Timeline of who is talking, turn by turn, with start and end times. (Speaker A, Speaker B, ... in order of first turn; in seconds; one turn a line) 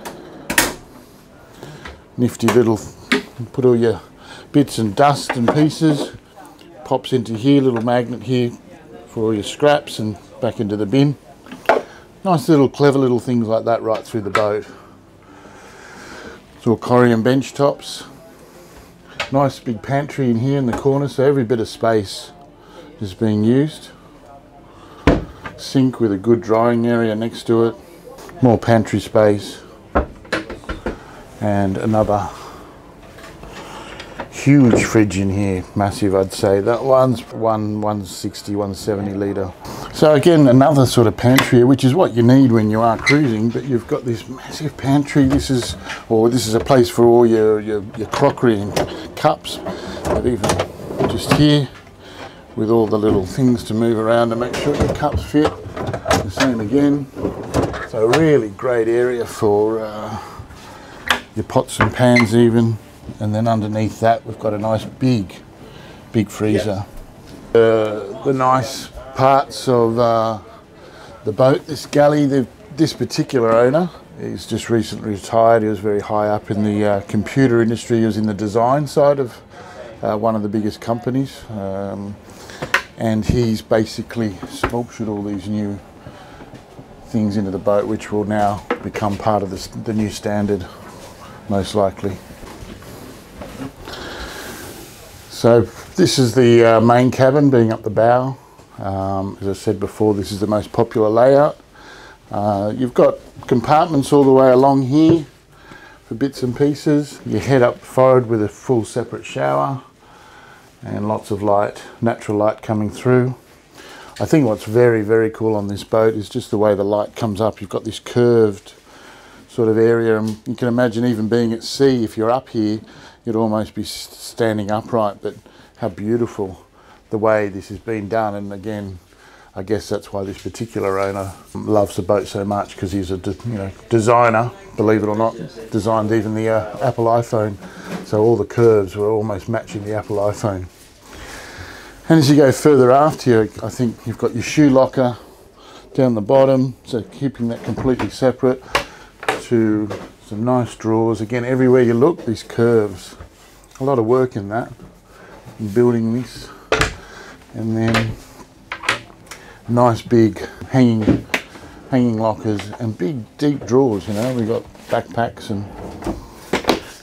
Speaker A: 2.2-6.2
Speaker A: 6.8-8.6
Speaker A: 9.1-11.2
Speaker A: 12.2-14.7
Speaker A: 16.6-18.1
Speaker A: 19.3-22.3
Speaker A: 23.0-23.9
Speaker A: 25.6-27.8
Speaker A: 28.4-29.6
Speaker A: 31.4-32.5
Speaker A: 34.3-51.7
Speaker A: 52.5-57.2
Speaker A: 57.7-60.5
Speaker A: 61.3-65.4
Speaker A: 66.1-66.9
Speaker A: 67.5-70.4
Speaker A: 71.2-79.4
Speaker A: 80.0-82.2
Speaker A: 83.0-85.8
Speaker A: 87.1-90.7
Speaker A: 91.5-92.2
Speaker A: 95.3-101.6
Speaker A: 102.3-105.3
Speaker A: 106.1-109.8
Speaker A: 110.8-113.4
Speaker A: 114.2-118.8
Speaker A: 119.5-129.0
Speaker A: 129.6-140.7
Speaker A: 142.1-145.2
Speaker A: 145.9-153.2
Speaker A: 153.8-154.7
Speaker A: 155.6-156.6
Speaker A: 157.5-158.2
Speaker A: 159.7-161.3
Speaker A: 161.9-165.7